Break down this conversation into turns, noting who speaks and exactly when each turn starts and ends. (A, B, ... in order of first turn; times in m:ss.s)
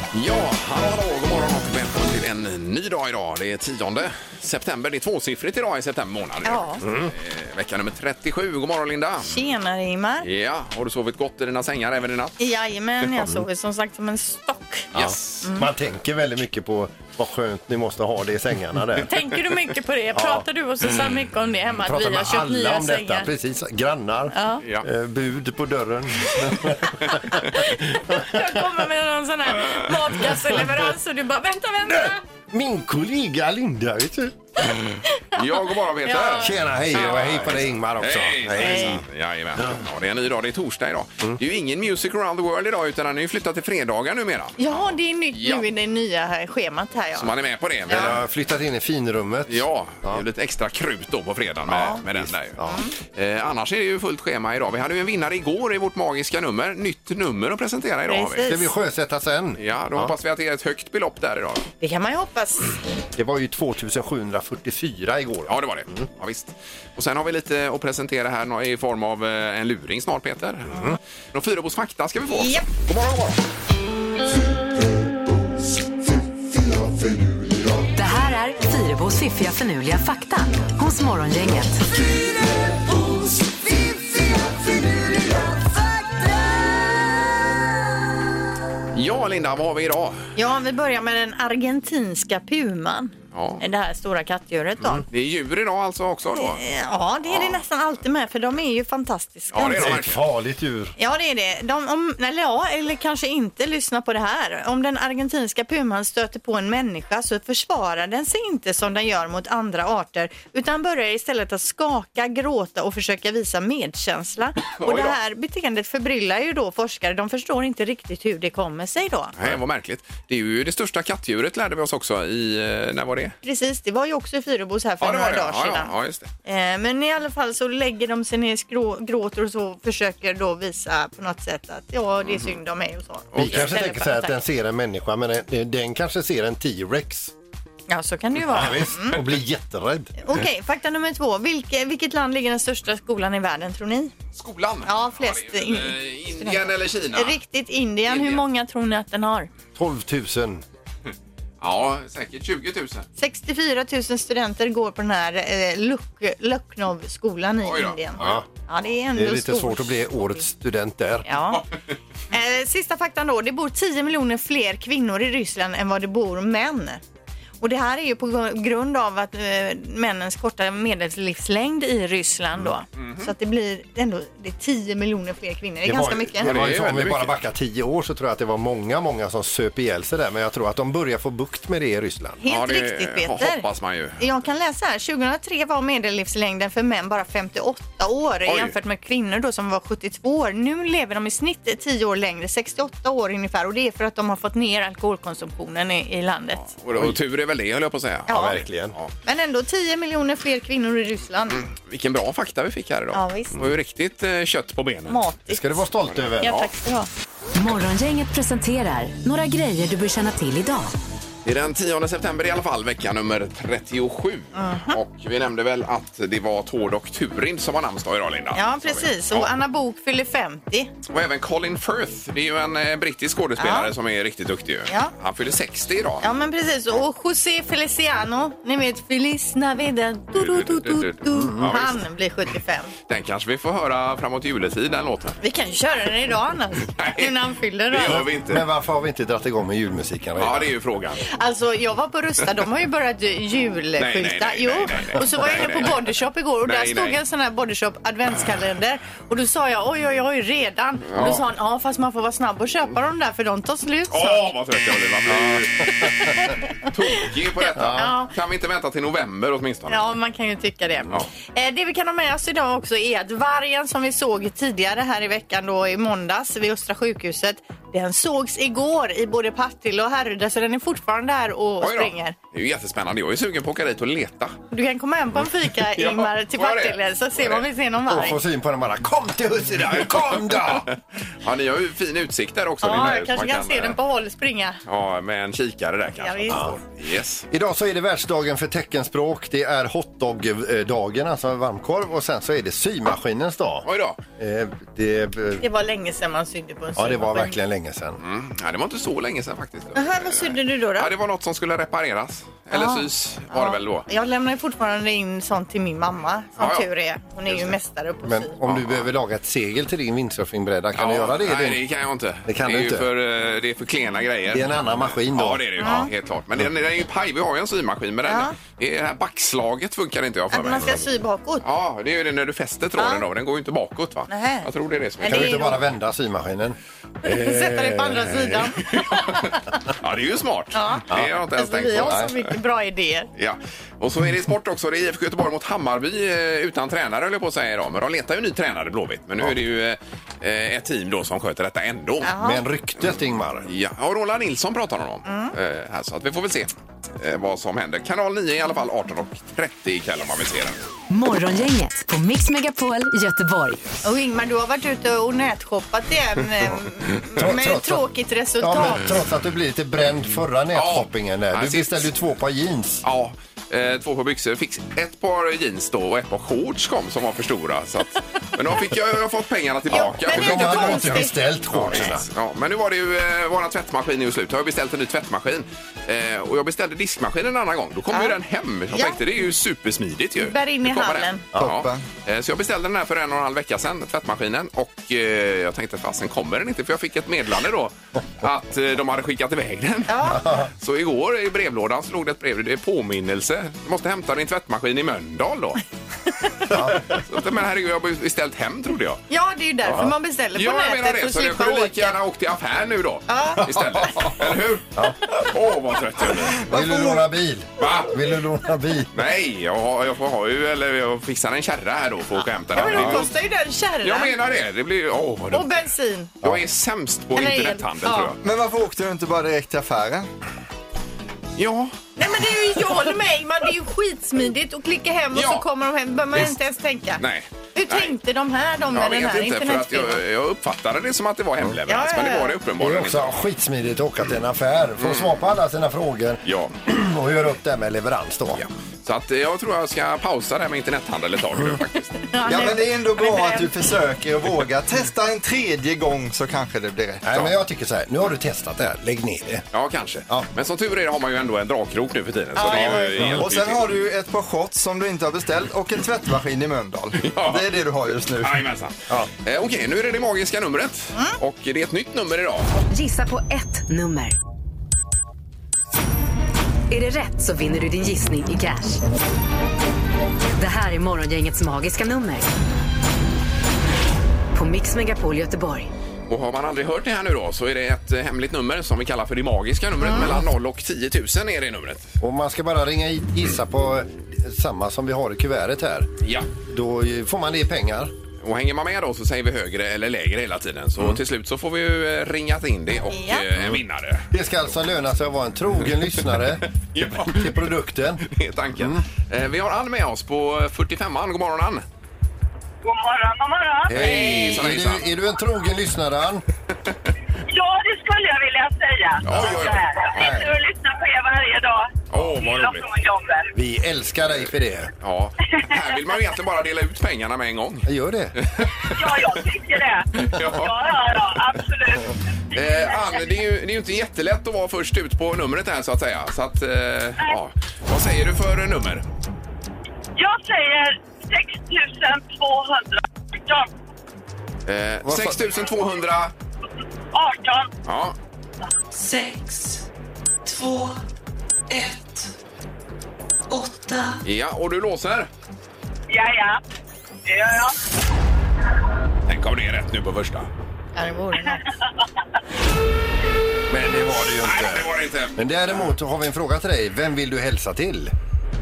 0:00.1-0:09.3 A
0:06.4-0:06.8 B
0:06.8-0:07.1 C
0:09.2-0:10.3 B
0:10.2-0:12.4 A
0:12.4-0:14.9 B
0:14.9-0:15.4 A
0:14.9-0:19.1 C
0:15.4-0:15.7 B
0:19.0-0:23.3 B
0:20.1-0:20.4 C
0:21.8-0:27.4 C
0:24.3-0:24.6 B
0:27.4-0:32.2 B
0:28.1-0:28.4 C
0:31.9-0:34.3 C
0:34.9-0:45.6 A
0:35.2-0:37.2 B
0:36.4-0:39.0 C
0:38.6-0:39.0 B
0:44.6-0:47.3 B
0:47.1-0:48.2 A
0:47.9-0:50.2 C
0:49.5-0:58.4 A
0:51.7-0:52.0 B
0:52.1-0:52.8 C
0:52.6-0:52.9 B
0:58.1-0:58.7 B
0:58.4-1:00.1 C
0:59.6-1:01.7 A
1:01.8-1:02.8 B
1:03.2-1:06.0 C
1:05.5-1:13.4 A
1:10.7-1:11.0 C
1:12.3-1:12.6 B
1:17.9-1:21.8 D
1:28.9-1:30.2 A
1:30.4-1:35.0 B
1:33.3-1:33.6 A
1:35.1-1:36.6 A
1:36.3-1:40.0 B
1:37.3-1:37.6 A
1:39.5-1:40.2 A
1:39.6-1:40.9 C
1:41.0-1:59.3 B
1:54.8-1:55.2 A
1:59.4-2:03.3 A
2:03.4-2:05.9 B
2:05.0-2:06.3 A
2:06.4-2:14.4 B
2:13.3-2:13.7 A
2:13.4-2:17.3 C
2:17.9-2:19.2 B
2:18.4-2:20.1 C
2:20.2-2:24.1 B
2:24.3-2:27.4 A
2:24.8-2:29.5 B
2:28.1-2:28.4 A
2:29.7-2:30.6 C
2:31.6-2:33.0 A
2:33.2-2:40.4 B
2:37.6-2:38.3 A
2:38.2-2:38.4 C
2:39.1-2:41.2 C
2:41.2-2:41.6 B
2:42.3-2:47.0 B
2:47.6-2:56.5 B
2:53.0-2:53.3 A
2:55.8-3:02.4 C
2:56.4-2:57.3 A
3:02.4-3:03.6 B
3:02.5-3:04.2 A
3:04.2-3:16.6 B
3:08.5-3:08.7 A
3:16.6-3:19.1 A
3:18.3-3:18.6 B
3:18.3-3:18.9 C
3:19.2-3:21.6 B
3:21.5-3:25.2 A
3:23.1-3:23.6 B
3:25.1-3:25.8 B
3:25.5-3:26.6 C
3:26.3-3:26.7 A
3:26.4-3:27.1 B
3:27.5-3:30.9 D
3:31.4-3:39.5 A
3:34.5-3:35.0 B
3:38.5-3:40.9 B
3:41.1-3:46.2 A
3:43.6-3:43.9 B
3:46.2-3:52.9 B
3:50.3-3:52.0 A
3:53.1-3:55.4 A
3:55.4-3:58.2 B
3:57.0-3:57.3 A
3:57.9-3:58.6 A
3:58.1-4:00.7 C
4:00.4-4:01.2 A
4:01.2-4:14.5 B
4:04.0-4:06.0 A
4:06.6-4:07.2 A
4:11.1-4:11.4 A
4:14.1-4:20.0 A
4:15.3-4:16.3 C
4:17.7-4:18.1 C
4:17.9-4:18.3 B
4:19.9-4:32.3 B
4:31.8-4:34.6 A
4:34.7-4:38.4 B
4:36.0-4:37.6 A
4:38.1-4:40.9 C
4:39.8-4:44.0 A
4:42.8-4:44.8 B
4:44.8-4:47.4 A
4:46.2-4:46.7 B
4:46.5-4:46.7 C
4:47.5-4:53.9 C
4:53.8-4:54.2 A
4:54.4-4:55.6 C
4:55.6-4:57.6 B
4:57.0-4:58.2 C
4:58.2-5:04.0 A
4:59.9-5:01.1 B
5:02.7-5:08.6 B
5:06.6-5:06.8 A
5:08.2-5:11.8 C
5:08.7-5:09.0 A
5:10.9-5:21.0 A
5:12.4-5:13.1 C
5:14.5-5:15.6 C
5:15.8-5:16.1 B
5:18.2-5:18.6 B
5:20.5-5:21.6 B
5:21.6-5:25.7 A
5:23.0-5:23.2 B
5:24.3-5:24.7 B
5:25.2-5:25.8 B
5:25.2-5:28.7 C
5:27.2-5:29.6 B
5:29.0-5:32.4 A
5:30.7-5:33.3 B
5:32.0-5:32.3 C
5:33.4-5:42.3 A
5:42.2-5:42.6 B
5:42.4-5:43.7 C
5:43.7-5:50.8 A
5:45.2-5:45.5 B
5:51.1-5:53.8 D
5:54.0-5:59.1 B
5:57.4-5:58.0 C
5:58.6-6:03.0 C
6:00.7-6:02.1 A
6:03.0-6:35.8 A
6:09.9-6:11.4 B
6:10.0-6:12.2 C
6:18.1-6:18.4 B
6:18.9-6:19.2 B
6:20.4-6:21.4 B
6:21.6-6:22.0 E
6:30.1-6:30.4 B
6:30.4-6:30.7 C
6:36.7-6:37.0 C
6:37.1-6:39.2 A
6:39.3-6:42.1 B
6:39.8-6:40.1 C
6:40.5-6:46.6 A
6:43.3-6:43.8 B
6:46.5-6:49.1 C
6:46.7-6:47.2 E
6:47.8-6:48.1 A
6:49.1-6:53.3 A
6:52.7-6:54.3 B
6:52.9-6:53.2 C
6:54.0-6:55.7 A
6:55.5-6:56.4 B
6:56.4-6:58.4 A
6:57.3-6:58.3 B
6:58.4-7:00.3 E
7:01.6-7:02.0 A
7:02.2-7:07.2 B
7:05.3-7:05.6 A
7:07.2-7:08.1 A
7:07.7-7:10.2 B
7:08.9-7:13.3 A
7:11.9-7:12.6 B
7:12.8-7:18.6 C
7:15.0-7:15.3 A
7:16.4-7:16.8 A
7:18.5-7:22.3 A
7:22.3-7:23.7 B
7:22.4-7:27.5 E
7:27.2-7:29.6 C
7:29.7-7:33.9 A
7:32.6-7:38.6 E
7:32.6-7:33.4 C
7:37.2-7:42.7 A
7:42.9-7:44.4 D
7:46.9-7:49.0 D
7:50.6-7:52.5 D
7:54.5-7:55.9 D
7:56.3-8:02.1 A
8:02.2-8:06.1 C
8:06.2-8:06.5 A
8:06.7-8:08.1 C
8:08.4-8:14.3 A
8:13.1-8:13.4 B
8:14.3-8:18.2 C
8:16.9-8:17.6 A
8:18.3-8:21.8 A
8:18.8-8:19.0 C
8:22.8-8:24.4 F
8:23.9-8:26.4 C
8:23.9-8:25.1 A
8:27.5-8:33.5 F
8:29.2-8:30.2 A
8:29.3-8:30.5 C
8:32.1-8:32.9 A
8:33.5-8:34.9 C
8:35.0-8:39.4 A
8:35.5-8:35.8 F
8:37.8-8:38.4 C
8:38.9-8:43.2 F
8:40.1-8:41.2 A
8:42.5-8:49.0 A
8:50.2-8:53.7 F
8:54.6-8:56.3 A
8:55.0-8:55.4 E
8:57.1-8:57.7 F
8:57.8-8:58.2 A
8:58.9-8:59.8 G
9:00.4-9:01.0 G
9:01.7-9:02.3 G
9:03.5-9:04.2 G
9:04.2-9:05.3 A
9:06.1-9:06.6 F
9:07.2-9:07.8 F
9:09.2-9:10.5 A
9:10.9-9:11.7 B
9:13.7-9:18.1 C
9:14.3-9:15.8 A